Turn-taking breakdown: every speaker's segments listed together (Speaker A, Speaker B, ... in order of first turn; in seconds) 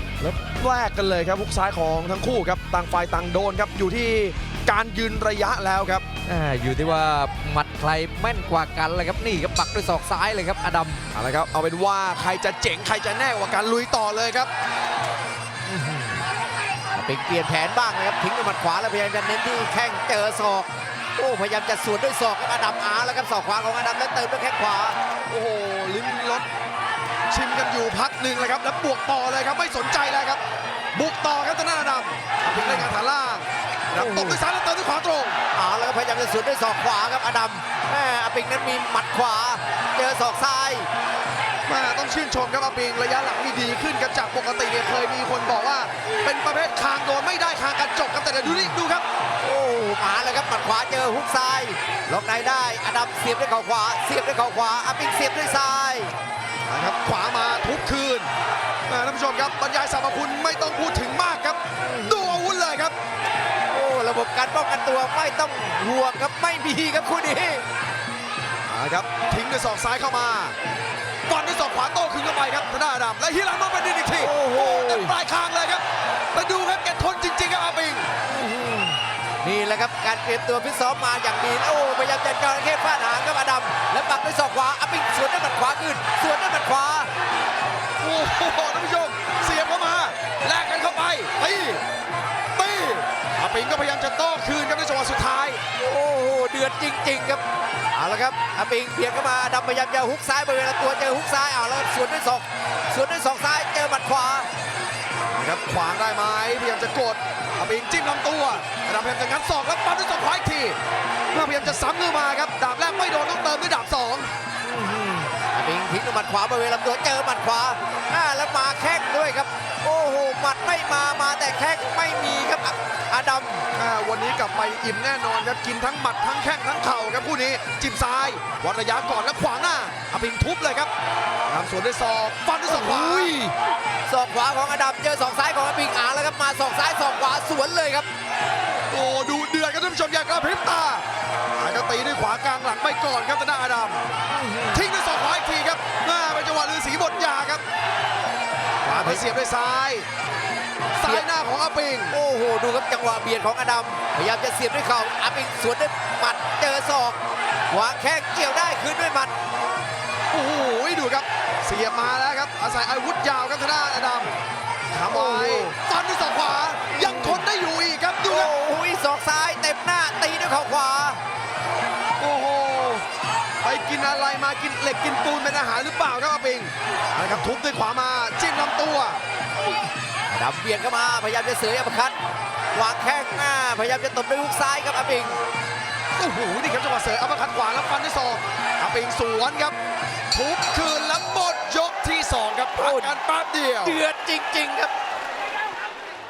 Speaker A: 0.2-6.0, 11.1-14.5, 25.3-26.5, 27.3-30.4, 30.9-35.4, 41.7-49.0, 56.7-58.3, 58.9-62.9, 68.7-70.5, 71.3-78.1, 88.0-91.8, 92.5-95.6, 105.3-110.8, 111.3-114.3, 123.7-130.9, 131.4-133.3, 138.9-141.0, 141.6-144.0, 144.7-147.6, 148.8-150.1, 150.9-152.1, 160.3-164.3, 164.9-168.5, 172.2-173.0, 173.6-179.2, 186.2-189.8, 190.3-194.0
Speaker B: 6.2-11.0, 15.7-16.2, 16.9-25.0, 32.5-32.9, 33.9-34.4, 35.5-40.9, 48.5-48.7, 49.4-56.1, 61.8-62.4, 63.7-67.6, 74.2-75.1, 78.2-87.1, 95.8-104.5, 114.6-123.6, 132.7-133.5, 134.1-138.1, 144.3-144.9, 148.9-149.2, 152.1-157.2, 157.7-159.3, 165.1-165.7, 166.9-167.4, 168.3-171.2, 180.3-182.2, 182.7-185.4, 192.8-193.1, 193.8-194.9